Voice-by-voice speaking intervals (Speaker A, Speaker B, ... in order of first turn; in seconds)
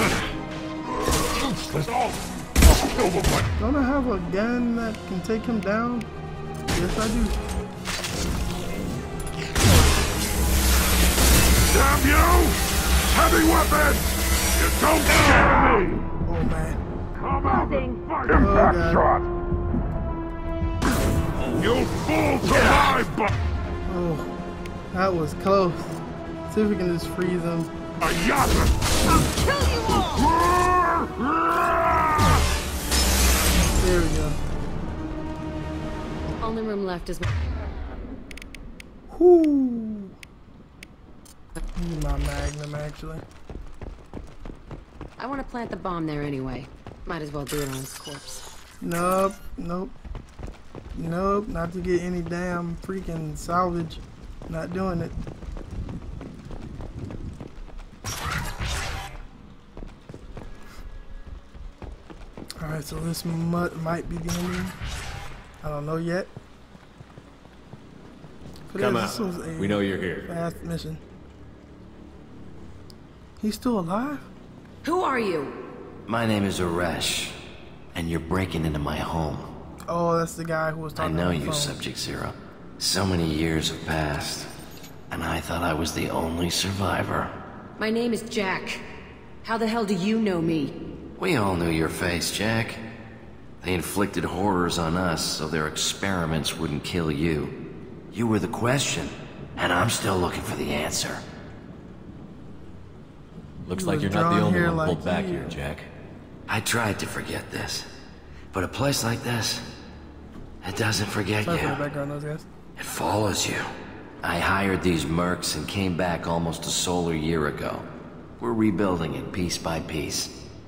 Speaker A: 0.9-3.5, 11.7-12.6, 13.1-16.0, 17.2-19.3, 21.6-23.3, 28.0-28.8, 30.0-32.5
Speaker B: 3.6-6.1, 6.7-7.4, 16.2-16.8, 18.3-19.0, 23.9-24.3, 24.9-27.7, 33.5-34.4, 39.1-40.1, 41.8-43.2, 48.8-49.9, 51.0-55.2, 62.6-64.8, 65.6-66.3, 68.7-71.0, 73.4-74.3, 79.9-81.8, 103.7-105.6, 111.4-112.5
Speaker C: 29.4-30.2, 36.4-37.3, 45.2-48.5, 74.8-75.6, 87.8-88.8, 89.4-90.8
Speaker D: 68.8-70.3, 103.7-105.9
Speaker E: 76.1-77.3, 77.9-79.5, 81.0-84.5, 85.1-87.3, 91.2-92.8, 93.6-97.6, 98.1-101.2, 106.5-107.9, 108.5-109.6, 110.6-111.8, 112.8-113.7, 114.2-117.8, 118.4-120.3